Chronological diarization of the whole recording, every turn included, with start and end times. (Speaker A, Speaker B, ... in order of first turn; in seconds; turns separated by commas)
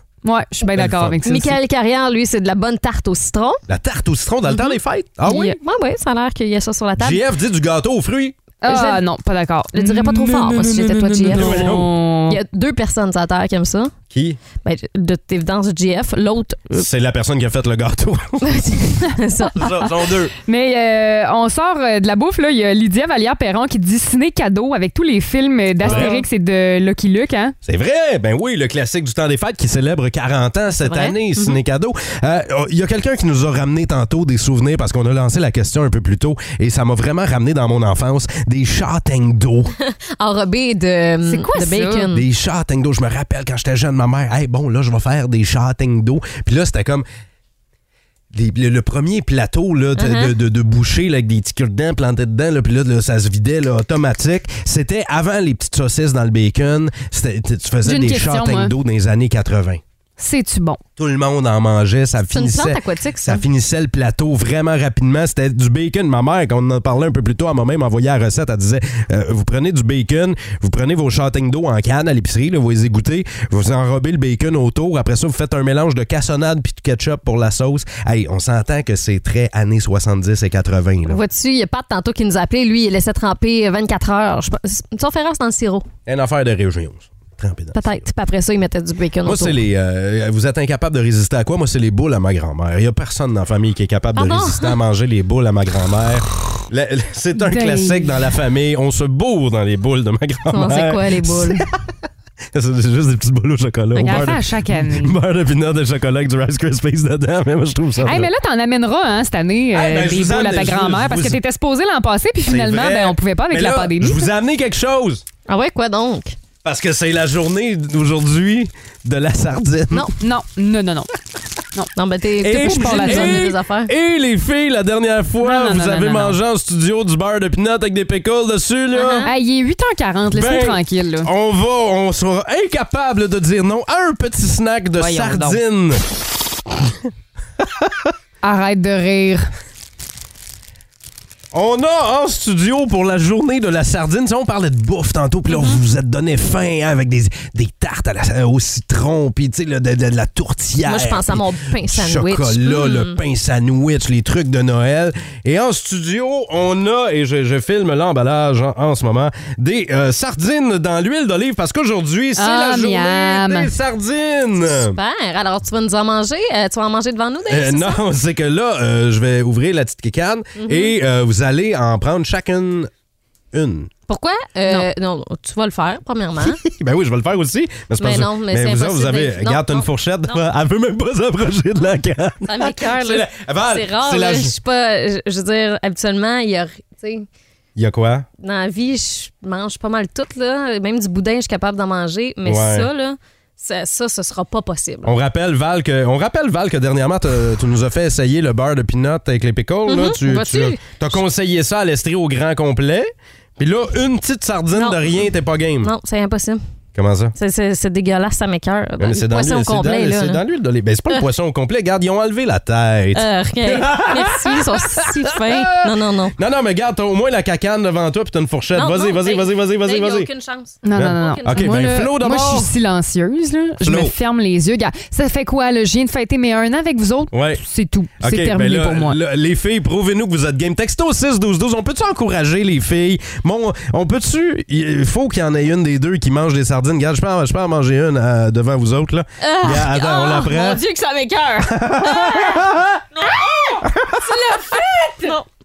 Speaker A: 0.2-1.5, Speaker B: 0.7-1.2, Speaker C: 1.2-3.6, Speaker B: 3.7-5.5, Speaker C: 4.5-4.7, Speaker C: 5.2-7.2, Speaker B: 7.0-8.3, Speaker A: 8.6-12.4, Speaker C: 8.7-9.0, Speaker C: 9.7-13.9, Speaker B: 11.3-12.0, Speaker B: 14.1-14.4, Speaker C: 14.6-16.9, Speaker B: 16.7-18.7, Speaker C: 18.4-19.9, Speaker B: 19.5-20.3, Speaker A: 20.4-27.5, Speaker B: 25.8-26.3, Speaker C: 25.8-26.1, Speaker B: 27.6-39.7, Speaker C: 30.8-31.6, Speaker C: 39.9-42.2, Speaker A: 41.2-42.1, Speaker B: 42.1-47.0, Speaker B: 48.3-59.8, Speaker C: 50.0-50.3, Speaker A: 57.8-58.7, Speaker A: 60.2-60.8, Speaker B: 61.0-81.2, Speaker C: 62.3-63.4, Speaker C: 81.0-85.9, Speaker B: 86.0-88.0, Speaker C: 87.7-89.6, Speaker B: 89.2-101.8, Speaker C: 94.1-94.8, Speaker A: 97.3-98.1, Speaker C: 100.5-101.6, Speaker B: 102.5-108.3, Speaker A: 104.0-105.2, Speaker A: 108.0-114.3, Speaker B: 109.7-111.4, Speaker B: 112.5-115.2, Speaker C: 115.5-116.3, Speaker B: 116.6-120.1, Speaker A: 120.2-121.1, Speaker C: 121.9-123.9, Speaker B: 122.4-129.3, Speaker A: 122.5-123.5, Speaker A: 125.4-126.4, Speaker C: 128.9-129.3, Speaker A: 129.2-131.3, Speaker B: 130.3-136.0, Speaker A: 135.0-135.6, Speaker B: 137.6-138.1, Speaker A: 138.4-139.5, Speaker B: 141.5-165.0, Speaker C: 145.5-145.8, Speaker C: 150.8-153.2, Speaker A: 162.3-163.7, Speaker C: 164.7-168.0, Speaker B: 167.5-172.9, Speaker C: 170.5-170.9, Speaker B: 173.5-173.9, Speaker C: 174.1-176.6, Speaker B: 176.4-184.6, Speaker C: 178.0-180.4, Speaker C: 182.4-187.3, Speaker B: 187.8-188.2, Speaker C: 188.4-195.1, Speaker B: 192.4-192.9, Speaker B: 195.0-205.9, Speaker C: 199.9-200.8, Speaker C: 204.7-206.6, Speaker B: 206.9-207.3, Speaker C: 207.3-210.4, Speaker B: 209.0-220.3, Speaker C: 213.1-216.3, Speaker C: 218.7-221.7, Speaker A: 220.8-229.2, Speaker B: 220.9-222.7, Speaker B: 223.8-224.1, Speaker B: 227.3-227.6, Speaker B: 228.2-240.8, Speaker C: 239.4-245.5, Speaker B: 241.6-243.0, Speaker B: 243.8-244.4